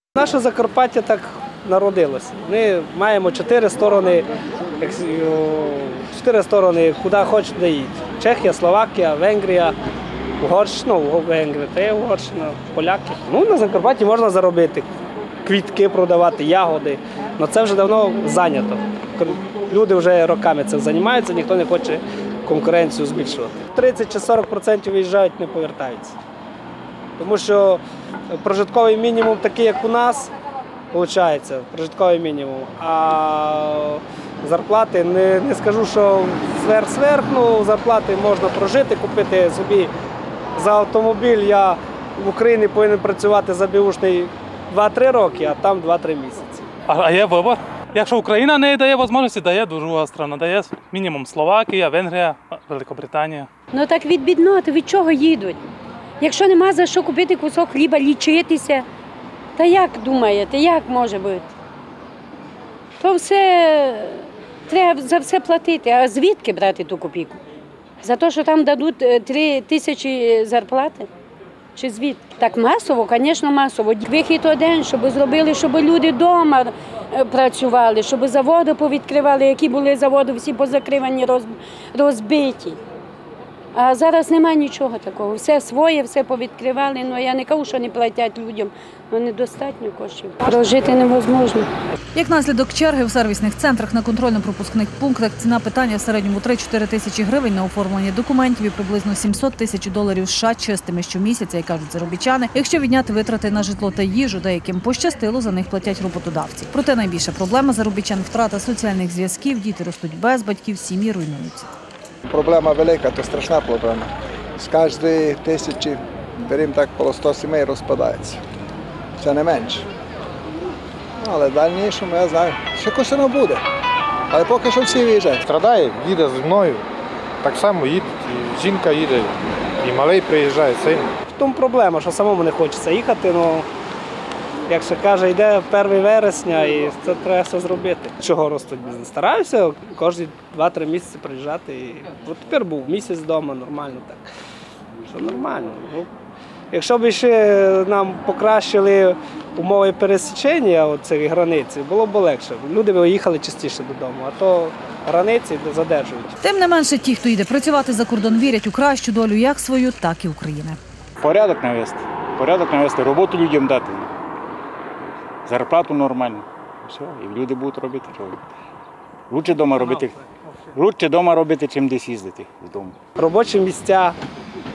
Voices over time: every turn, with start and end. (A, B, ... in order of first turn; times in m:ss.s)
0:00.2-0:04.3 A
0:04.8-0:09.8 A
0:10.4-0:14.9 A
0:15.5-0:26.2 A
0:27.2-0:30.3 A
0:30.9-0:39.9 A
0:40.6-0:46.7 A
0:46.9-0:53.5 B
0:53.7-0:55.7 C
0:56.2-0:58.8 C
0:59.6-1:01.5 C
1:03.0-1:07.4 C
1:08.0-1:11.1 C
1:11.8-1:22.8 C
1:23.8-1:31.7 C
1:32.2-1:51.7 D
1:52.3-1:58.4 E
1:59.2-1:59.9 E
2:01.2-2:03.6 E
2:04.3-2:05.4 E
2:05.4-2:06.8 F
2:07.4-2:11.1 F
2:11.3-2:13.7 A
2:14.7-2:24.3 A
2:25.1-2:26.1 A
2:26.7-2:36.4 A
2:36.4-2:40.8 D
2:41.2-2:44.1 G
2:45.4-2:48.4 G
2:49.3-2:53.0 G
2:53.2-2:54.2 A